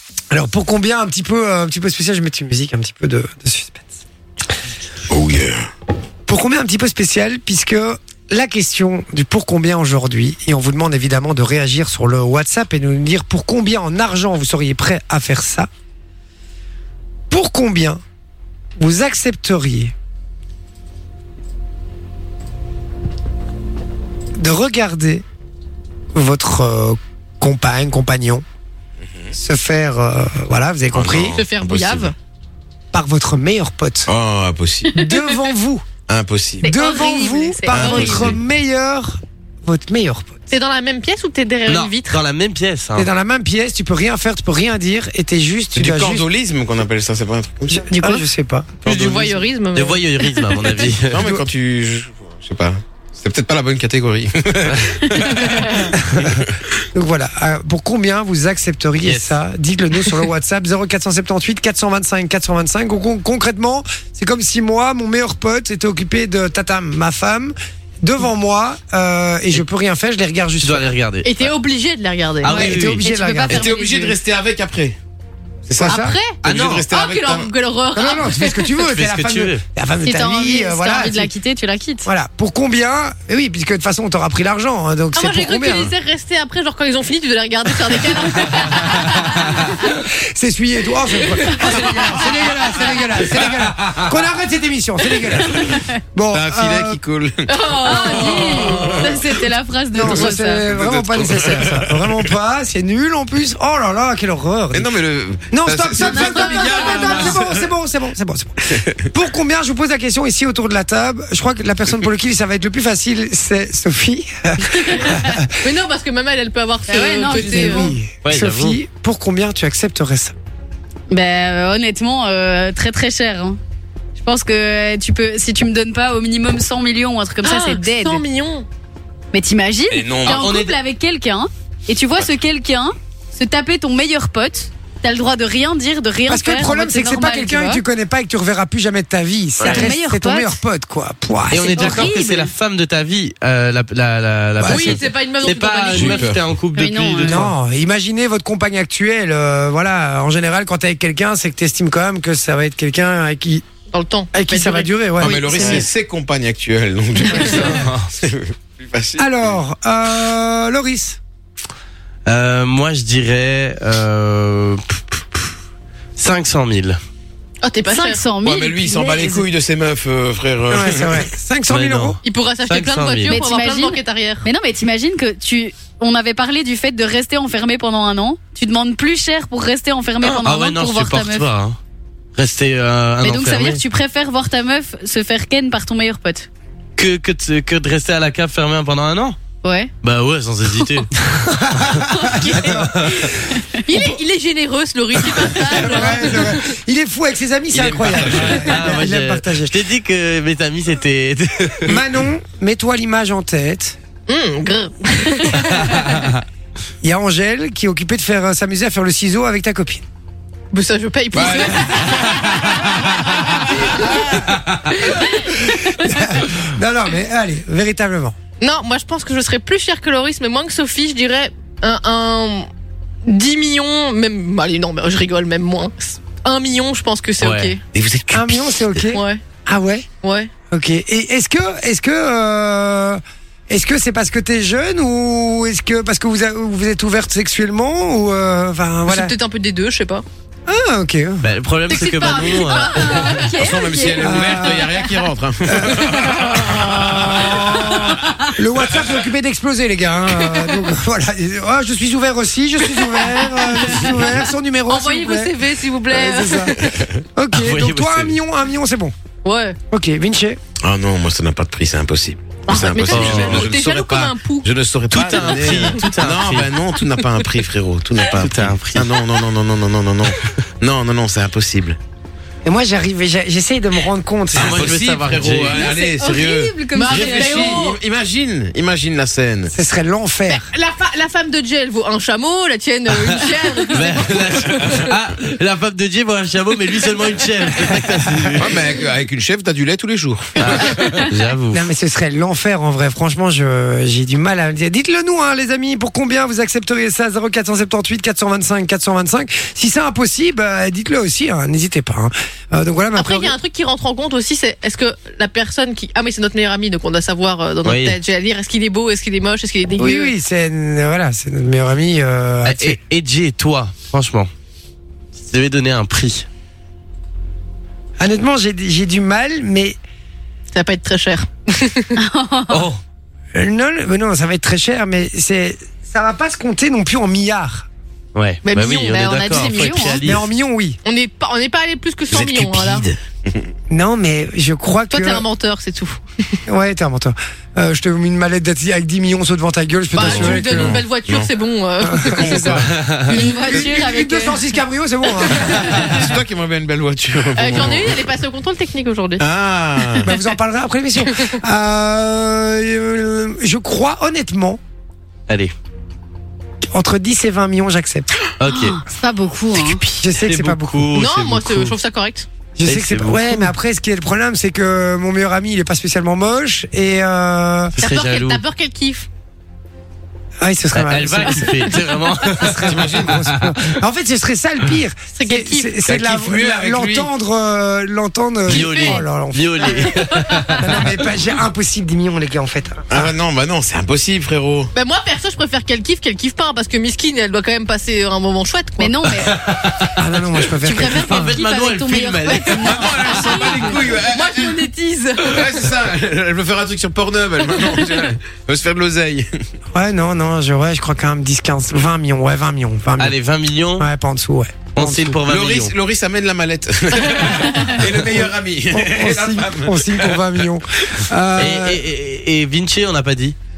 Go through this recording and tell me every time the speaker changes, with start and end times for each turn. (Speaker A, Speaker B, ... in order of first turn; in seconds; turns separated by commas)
Speaker A: 0.3-3.9, Speaker B: 5.1-5.6, Speaker A: 6.3-15.7, Speaker A: 17.3-18.0, Speaker A: 18.8-19.9, Speaker A: 24.4-25.2, Speaker A: 26.1-28.4, Speaker A: 29.3-31.4, Speaker B: 30.9-32.1, Speaker C: 31.4-32.1, Speaker A: 32.9-34.1, Speaker B: 34.1-34.9, Speaker A: 34.9-35.9, Speaker B: 36.1-36.7, Speaker C: 36.6-38.4, Speaker A: 36.6-40.3, Speaker B: 37.7-38.4, Speaker C: 40.5-42.2, Speaker D: 41.7-43.1, Speaker A: 43.0-46.3, Speaker B: 45.8-47.9, Speaker A: 47.7-48.7, Speaker C: 48.9-50.9, Speaker D: 48.9-51.4, Speaker B: 51.1-56.5, Speaker A: 55.9-70.9, Speaker D: 59.0-59.4, Speaker D: 70.6-71.3, Speaker C: 71.2-72.6, Speaker D: 72.4-73.1, Speaker A: 72.4-73.7, Speaker E: 72.5-74.2, Speaker B: 73.5-75.0, Speaker B: 75.7-77.5, Speaker A: 75.8-76.2, Speaker C: 75.8-78.8, Speaker D: 76.4-76.9, Speaker A: 78.0-81.3, Speaker D: 78.9-79.6, Speaker C: 80.0-82.1, Speaker E: 81.0-81.6, Speaker A: 82.1-85.9, Speaker C: 85.2-89.7, Speaker A: 89.6-97.0, Speaker C: 91.5-92.2, Speaker E: 95.6-96.0, Speaker B: 96.3-97.7, Speaker C: 97.5-99.0, Speaker E: 97.8-100.7, Speaker B: 98.6-99.3, Speaker A: 99.9-104.9, Speaker B: 100.0-102.1, Speaker B: 104.7-107.7, Speaker A: 105.5-115.5, Speaker C: 106.0-107.4, Speaker B: 108.7-109.0, Speaker E: 115.1-115.4, Speaker C: 115.6-117.9, Speaker E: 116.9-118.0, Speaker A: 117.4-120.3, Speaker D: 118.2-118.8, Speaker E: 121.1-123.6, Speaker E: 124.2-128.2, Speaker C: 127.4-128.7, Speaker E: 129.3-137.8, Speaker B: 129.9-130.5, Speaker D: 130.2-130.8, Speaker A: 136.3-142.1, Speaker D: 139.6-140.0, Speaker E: 139.8-140.6, Speaker D: 141.5-147.5, Speaker E: 141.8-142.5, Speaker A: 144.6-145.0, Speaker C: 144.6-146.3, Speaker B: 145.8-146.4, Speaker E: 146.8-147.5, Speaker A: 147.2-153.6, Speaker C: 153.9-155.9, Speaker A: 154.3-155.8, Speaker B: 155.2-159.6, Speaker C: 157.3-157.7, Speaker A: 159.2-161.2, Speaker D: 162.3-165.6, Speaker D: 166.2-167.0, Speaker C: 167.6-168.2, Speaker E: 167.9-169.5, Speaker B: 168.4-171.3, Speaker A: 170.7-172.2, Speaker D: 171.7-173.4, Speaker C: 172.2-174.5, Speaker E: 173.3-181.5, Speaker D: 180.3-181.8, Speaker D: 182.3-183.8, Speaker E: 183.2-186.5, Speaker D: 187.0-189.4, Speaker E: 189.6-189.9, Speaker D: 190.0-191.1, Speaker A: 191.2-193.6, Speaker D: 191.8-193.4, Speaker E: 192.1-192.8, Speaker E: 193.4-193.9, Speaker C: 193.9-196.7, Speaker A: 195.2-199.8, Speaker D: 197.7-202.0, Speaker A: 201.9-204.0, Speaker C: 204.3-206.2, Speaker A: 207.0-210.0, Speaker C: 210.7-214.4, Speaker B: 211.3-212.4, Speaker B: 213.6-214.3, Speaker A: 215.2-218.3, Speaker C: 218.6-222.7, Speaker C: 223.2-227.8, Speaker D: 227.4-227.7, Speaker B: 227.9-229.0, Speaker A: 228.3-230.1, Speaker C: 229.1-229.4, Speaker C: 230.2-230.5, Speaker A: 230.7-239.3, Speaker C: 239.1-240.2, Speaker A: 240.7-241.5, Speaker D: 241.4-243.5, Speaker C: 241.9-243.6, Speaker E: 242.7-244.3, Speaker B: 243.5-247.5, Speaker A: 244.2-244.9, Speaker A: 245.7-255.5, Speaker C: 253.0-254.3, Speaker C: 254.9-257.0, Speaker A: 256.1-256.8, Speaker A: 257.4-259.1, Speaker D: 257.5-258.4, Speaker C: 259.4-259.8, Speaker A: 259.9-260.6, Speaker B: 260.8-272.0, Speaker C: 262.7-264.7, Speaker D: 263.1-263.5, Speaker D: 265.1-266.8, Speaker C: 265.3-266.1, Speaker D: 268.3-269.3, Speaker A: 272.6-274.9, Speaker D: 274.6-277.7, Speaker B: 274.6-279.7, Speaker E: 275.8-277.4, Speaker C: 276.9-278.0, Speaker A: 279.7-280.7, Speaker C: 280.5-285.1, Speaker D: 283.9-288.8, Speaker B: 288.6-291.2, Speaker D: 290.6-291.9, Speaker A: 291.7-303.5, Speaker C: 303.1-310.3, Speaker D: 307.8-308.2, Speaker A: 310.0-313.0, Speaker D: 312.6-314.5, Speaker D: 315.3-316.5, Speaker A: 318.2-320.0, Speaker C: 320.7-322.1, Speaker E: 322.2-322.9, Speaker D: 322.7-323.0, Speaker A: 323.5-327.9, Speaker D: 328.3-330.5, Speaker C: 328.6-329.8, Speaker E: 329.4-330.2, Speaker A: 330.2-331.0, Speaker C: 331.1-333.1, Speaker B: 332.3-333.6, Speaker A: 333.9-335.4, Speaker C: 335.1-336.6, Speaker A: 336.7-341.0, Speaker C: 340.1-342.6, Speaker B: 340.2-341.5, Speaker A: 342.0-346.0, Speaker B: 342.2-343.0, Speaker D: 343.0-343.4, Speaker C: 343.2-344.0, Speaker E: 343.4-344.6, Speaker C: 345.4-346.1, Speaker B: 345.8-348.3, Speaker C: 347.6-349.4, Speaker B: 349.4-350.3, Speaker A: 350.2-354.8, Speaker D: 355.5-355.7, Speaker A: 356.9-358.3, Speaker D: 358.6-359.0, Speaker E: 358.6-360.0, Speaker D: 359.8-361.9, Speaker A: 359.9-361.1, Speaker C: 361.1-362.5, Speaker A: 362.8-367.9, Speaker D: 362.9-363.8, Speaker C: 368.0-369.3, Speaker D: 368.0-368.6, Speaker A: 370.6-380.2, Speaker D: 370.9-373.0, Speaker C: 371.5-371.9, Speaker B: 372.9-373.3, Speaker C: 375.4-375.9, Speaker B: 376.1-377.3, Speaker D: 378.7-381.1, Speaker C: 378.7-379.2, Speaker C: 379.9-380.6, Speaker A: 380.7-383.3, Speaker B: 383.1-384.9, Speaker C: 384.9-389.3, Speaker E: 389.0-389.6, Speaker D: 389.5-392.7, Speaker A: 390.1-391.6, Speaker C: 390.9-391.8, Speaker E: 391.5-394.0, Speaker C: 392.3-395.8, Speaker B: 392.7-394.8, Speaker B: 395.4-399.5, Speaker C: 397.8-398.1, Speaker A: 399.9-403.4, Speaker D: 403.2-404.1, Speaker A: 404.0-405.4, Speaker D: 404.9-405.9, Speaker B: 405.5-410.7, Speaker A: 407.8-408.4, Speaker A: 408.9-412.1, Speaker D: 411.6-413.6